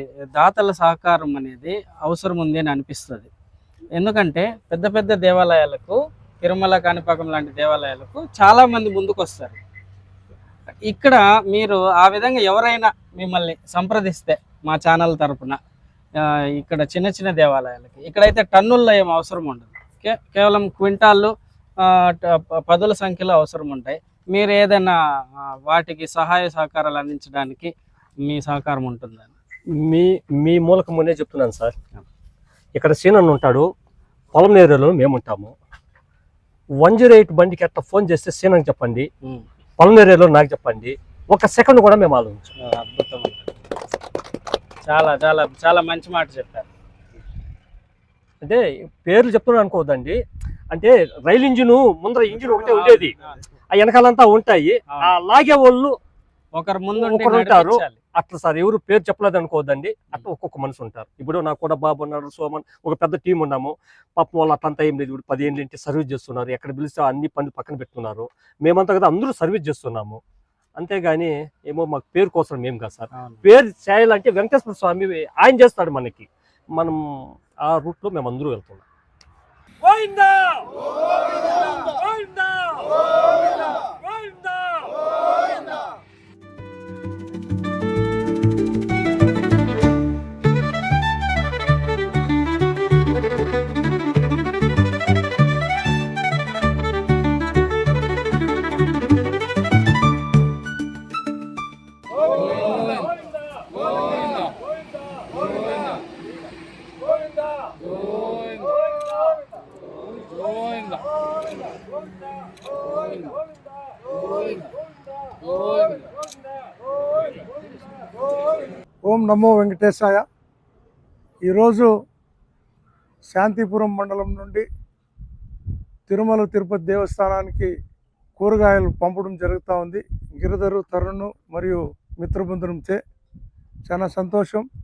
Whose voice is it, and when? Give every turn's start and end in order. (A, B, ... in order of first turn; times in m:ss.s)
0:00.4-0:03.3 A
0:04.0-0:09.6 A
0:10.8-0:15.6 A
0:16.2-0:27.7 A
0:28.2-0:29.3 A
0:29.8-0:31.7 B
0:32.8-0:33.7 B
0:34.3-0:35.5 B
0:36.8-0:39.1 B
0:39.8-0:42.5 B
0:42.6-0:43.4 A
0:44.8-0:46.7 A
0:48.4-0:50.2 B
0:50.7-0:53.1 B
0:52.6-0:53.1 A
0:53.7-0:55.9 B
0:56.5-0:58.0 A
0:57.0-1:10.2 B
1:10.8-1:17.0 B
1:13.1-1:13.4 A
1:17.6-1:18.8 B
1:19.8-1:25.1 B
1:59.0-2:00.2 C
2:01.4-2:01.9 C
2:03.3-2:04.7 C
2:06.1-2:07.7 C
2:08.4-2:13.0 C
2:13.8-2:14.7 C